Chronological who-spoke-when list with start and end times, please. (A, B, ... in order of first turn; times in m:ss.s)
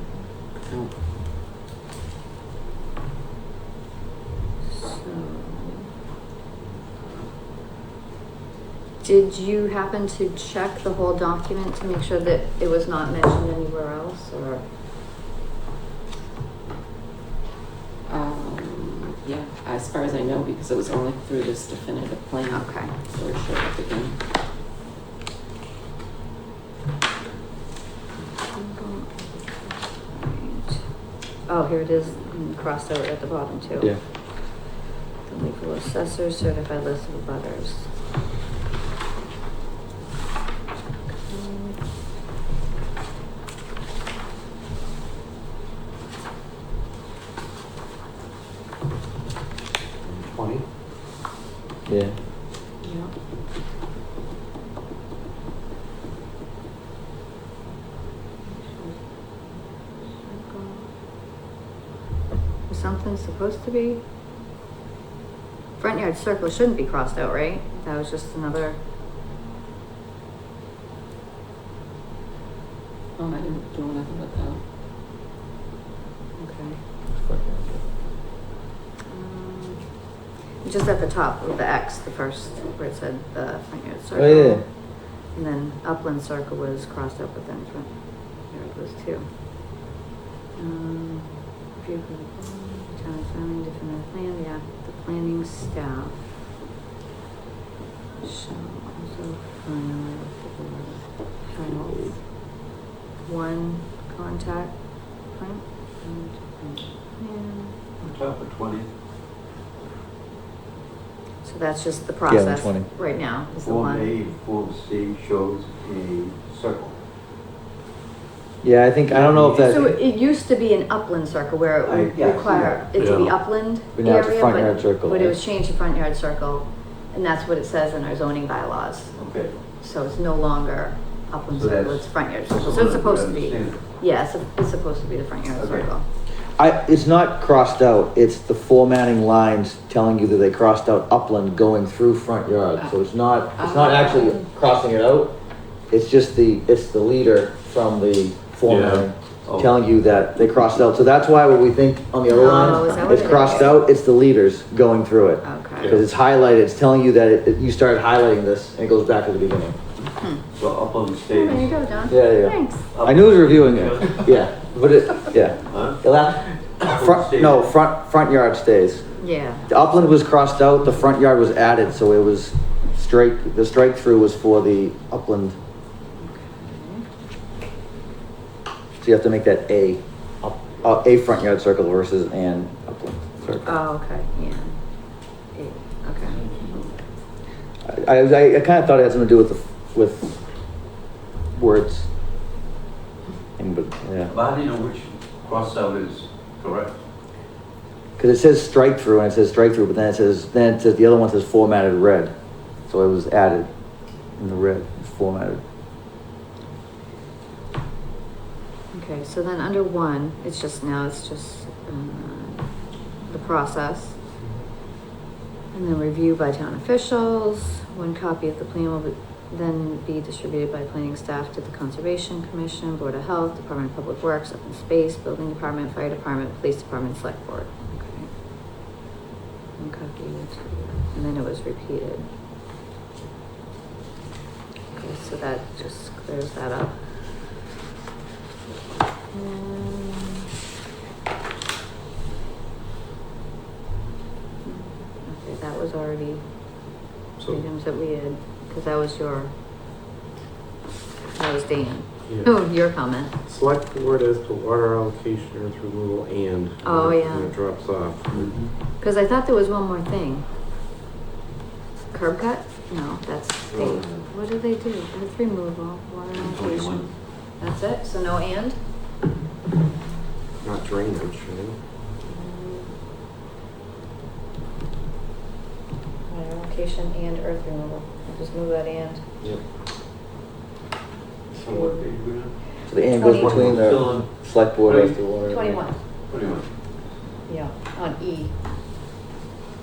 0:00.6-0:00.9 A
0:04.7-0:05.9 B
0:09.0-0:14.6 B
0:18.1-0:24.2 A
0:22.5-0:22.9 B
0:28.3-0:30.8 B
0:31.4-0:34.0 B
0:35.2-0:37.9 B
0:41.2-0:41.8 B
0:51.8-0:52.1 C
0:52.8-0:53.1 B
0:58.4-1:00.9 B
1:02.7-1:04.0 B
1:05.8-1:08.8 B
1:13.2-1:14.6 A
1:16.4-1:16.8 B
1:17.2-1:17.8 C
1:19.1-1:19.9 B
1:20.6-1:29.3 B
1:24.1-1:24.6 C
1:30.5-1:36.2 B
1:38.2-1:42.5 B
1:43.2-1:47.8 B
1:48.0-1:48.9 D
1:51.4-1:54.1 B
1:52.3-1:52.9 C
1:53.6-1:57.0 D
1:58.6-1:59.9 C
1:59.1-1:59.8 D
1:59.6-2:09.1 B
2:01.8-2:03.1 D
2:03.0-2:03.3 E
2:03.9-2:05.4 C
2:09.2-2:09.6 D
2:09.8-2:16.0 B
2:11.5-2:13.8 D
2:15.6-2:15.9 D
2:16.6-2:25.3 C
2:23.6-2:24.4 A
2:25.9-2:39.8 C
2:28.7-2:29.0 E
2:29.4-2:29.7 D
2:32.3-2:33.8 B
2:35.4-2:35.9 B
2:40.2-2:40.4 B
2:40.6-2:42.1 D
2:41.3-2:42.9 B
2:42.1-2:49.0 C
2:42.9-2:44.3 D
2:45.6-2:46.0 D
2:46.8-2:47.7 D
2:49.2-2:49.6 B
2:49.7-2:55.6 C
2:56.2-2:57.0 B
2:59.0-3:03.8 C
3:03.6-3:04.8 B
3:05.5-3:06.7 B
3:06.4-3:06.8 D
3:07.8-3:10.4 C
3:11.5-3:12.1 C
3:13.6-3:14.3 C
3:14.3-3:17.0 D
3:18.2-3:22.3 C
3:22.9-3:23.7 C
3:24.4-3:25.6 C
3:28.9-3:32.7 B
3:33.2-3:34.2 B
3:35.7-3:48.3 B
3:49.8-3:52.3 B
3:54.9-3:57.0 B
3:59.3-4:00.5 B
4:04.6-4:06.4 B
4:07.4-4:07.6 E
4:07.5-4:09.5 B
4:11.3-4:13.4 B
4:12.3-4:12.6 E
4:13.4-4:18.5 E
4:16.8-4:17.5 B
4:19.0-4:20.4 B
4:22.1-4:28.8 B
4:23.7-4:24.2 D
4:26.3-4:27.1 D
4:30.6-4:31.8 E
4:32.2-4:32.9 B
4:36.3-4:39.2 B
4:41.5-4:42.5 D
4:41.7-4:42.0 B
4:42.9-4:45.8 C
4:43.1-4:43.6 B
4:43.3-4:44.3 D
4:44.8-4:45.1 D
4:45.5-4:46.0 B
4:46.3-4:46.7 D
4:47.5-4:48.5 B